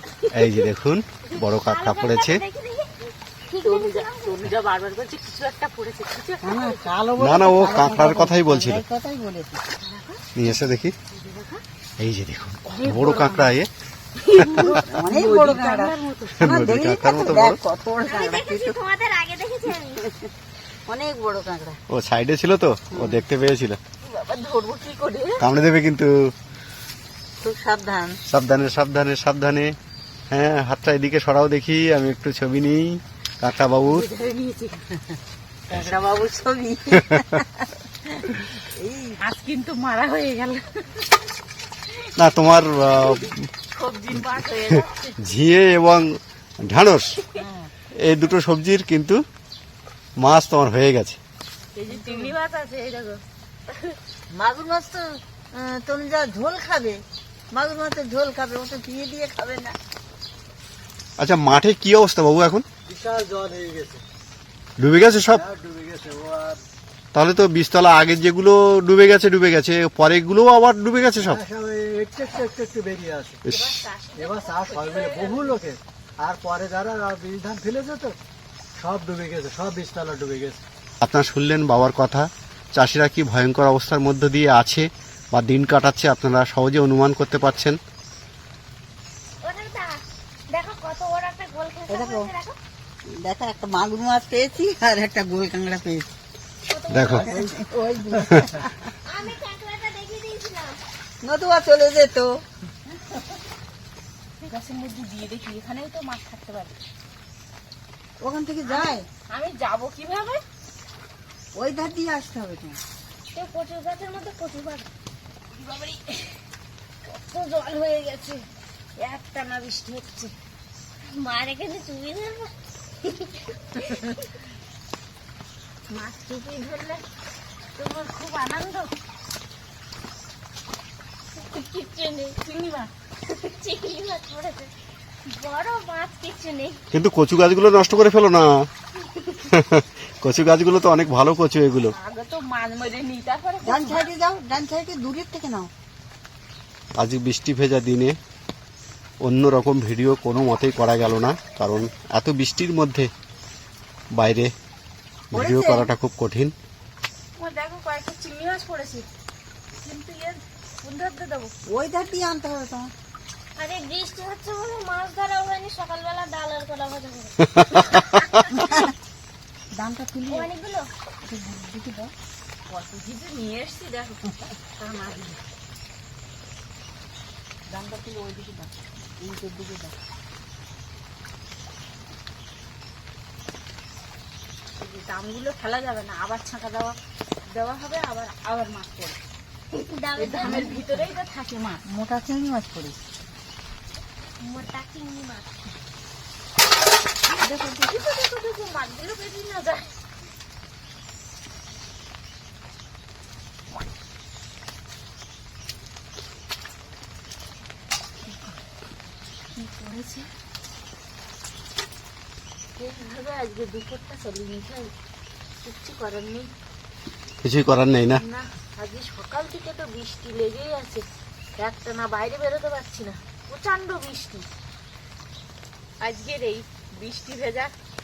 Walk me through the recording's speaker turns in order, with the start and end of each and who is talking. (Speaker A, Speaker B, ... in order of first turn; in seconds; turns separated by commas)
Speaker A: 0.3-2.4, Speaker B: 1.3-2.9, Speaker B: 3.5-4.4, Speaker C: 3.6-6.8, Speaker D: 6.4-9.6, Speaker A: 7.2-8.8, Speaker C: 9.8-10.2, Speaker A: 10.3-10.9, Speaker C: 11.1-11.6, Speaker A: 12.0-13.7, Speaker C: 12.7-13.5, Speaker C: 14.2-16.6, Speaker D: 14.6-18.8, Speaker A: 16.4-17.6, Speaker B: 18.0-20.1, Speaker D: 20.9-21.8, Speaker A: 21.9-23.8, Speaker D: 22.9-23.2, Speaker C: 24.0-25.4, Speaker A: 25.4-26.3, Speaker D: 27.4-28.2, Speaker A: 28.3-29.7, Speaker A: 30.3-34.1, Speaker C: 33.9-34.9, Speaker D: 35.7-37.7, Speaker D: 38.6-39.2, Speaker C: 39.2-41.0, Speaker A: 42.2-43.4, Speaker C: 42.9-45.1, Speaker A: 45.2-47.2, Speaker A: 48.0-49.2, Speaker A: 50.2-51.2, Speaker C: 51.7-53.2, Speaker D: 51.9-52.3, Speaker D: 54.3-59.7, Speaker A: 61.2-62.6, Speaker E: 62.9-64.0, Speaker A: 64.8-65.4, Speaker E: 65.3-66.6, Speaker A: 67.1-71.4, Speaker E: 71.2-73.4, Speaker A: 73.5-73.7, Speaker C: 73.5-75.6, Speaker E: 74.2-78.2, Speaker E: 78.8-80.6, Speaker A: 81.0-87.8, Speaker B: 89.4-92.6, Speaker D: 91.9-92.3, Speaker D: 93.1-96.1, Speaker B: 96.7-97.5, Speaker A: 96.9-97.3, Speaker D: 97.1-98.7, Speaker B: 99.0-100.8, Speaker D: 101.2-102.4, Speaker C: 104.4-106.7, Speaker D: 108.2-109.0, Speaker C: 108.6-110.4, Speaker D: 111.5-112.8, Speaker B: 113.3-114.9, Speaker C: 115.5-116.3, Speaker C: 117.1-118.4, Speaker C: 119.0-120.3, Speaker B: 121.1-122.5, Speaker B: 123.0-124.1, Speaker C: 125.9-127.0, Speaker C: 127.8-128.9, Speaker B: 131.4-132.4, Speaker C: 132.4-132.9, Speaker B: 133.3-134.7, Speaker B: 135.2-136.8, Speaker A: 136.9-138.5, Speaker A: 139.5-141.9, Speaker C: 141.9-144.1, Speaker D: 143.6-145.7, Speaker A: 147.0-148.2, Speaker A: 149.2-153.1, Speaker A: 154.1-154.5, Speaker A: 155.3-156.5, Speaker D: 155.3-155.9, Speaker C: 157.4-159.1, Speaker C: 159.8-161.5, Speaker D: 161.7-162.9, Speaker B: 163.6-168.4, Speaker D: 168.5-168.9, Speaker D: 169.8-170.5, Speaker B: 170.3-170.9, Speaker D: 171.2-172.1, Speaker C: 172.7-174.2, Speaker C: 174.8-175.4, Speaker C: 177.7-178.7, Speaker D: 179.2-179.9, Speaker C: 184.8-186.9, Speaker C: 187.5-189.1, Speaker B: 189.7-191.1, Speaker C: 190.2-191.8, Speaker D: 191.8-193.0, Speaker B: 194.4-195.6, Speaker D: 197.4-197.9, Speaker C: 197.8-199.9, Speaker C: 209.5-210.3, Speaker C: 212.8-214.9, Speaker C: 215.6-216.5, Speaker A: 217.4-218.2, Speaker C: 218.1-221.0, Speaker C: 221.6-224.5, Speaker C: 226.0-227.7